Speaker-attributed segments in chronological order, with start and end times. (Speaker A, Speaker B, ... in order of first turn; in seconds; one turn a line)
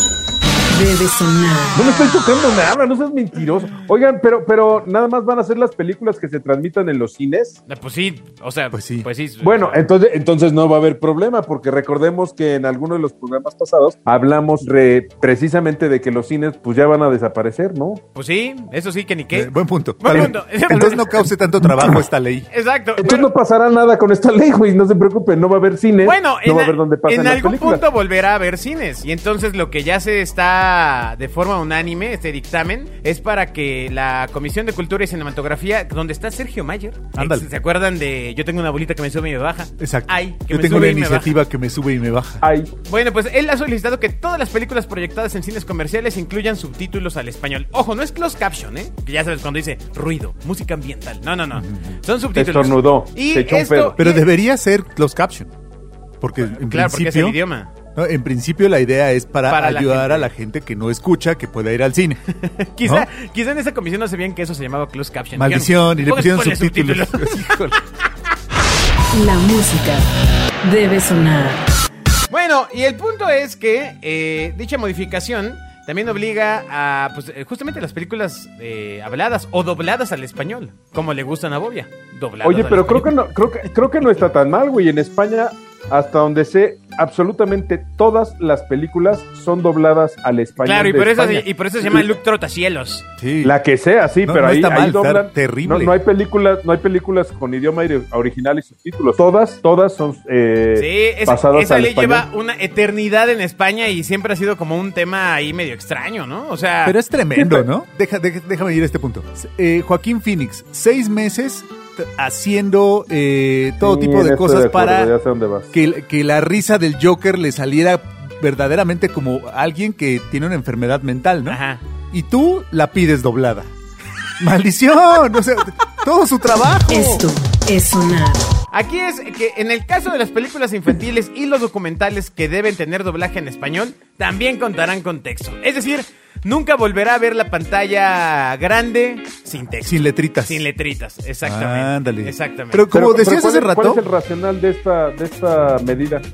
Speaker A: 0.7-1.9
Speaker B: 1.8-7.6
Speaker C: 7.7-9.8
Speaker D: 8.7-9.1
Speaker B: 9.4-18.0
Speaker C: 18.1-21.3
Speaker D: 19.3-22.5
Speaker C: 22.5-23.3
Speaker B: 23.0-27.8
Speaker C: 26.0-41.4
Speaker D: 37.1-37.5
Speaker D: 39.8-42.4
Speaker B: 42.4-42.7
Speaker C: 42.9-54.3
Speaker D: 51.5-52.0
Speaker B: 52.4-54.0
Speaker D: 54.0-55.5
Speaker D: 56.2-57.4
Speaker C: 56.5-57.7
Speaker D: 58.0-62.2
Speaker C: 59.5-60.3
Speaker C: 62.4-67.8
Speaker D: 62.8-63.1
Speaker D: 65.4-67.8
Speaker A: 69.1-70.1
Speaker A: 70.6-71.7
Speaker C: 72.3-83.2
Speaker B: 82.4-92.1
Speaker C: 90.6-93.1
Speaker D: 93.2-93.5
Speaker B: 93.4-102.2
Speaker D: 94.2-95.9
Speaker C: 100.8-107.0
Speaker D: 106.8-115.1
Speaker B: 107.4-107.7
Speaker B: 113.8-115.7
Speaker D: 115.7-121.6
Speaker C: 121.5-121.8
Speaker D: 122.1-123.7
Speaker D: 124.4-127.2
Speaker A: 126.9-128.5
Speaker C: 128.7-142.9
Speaker D: 139.8-140.6
Speaker D: 141.4-144.0
Speaker B: 142.9-146.2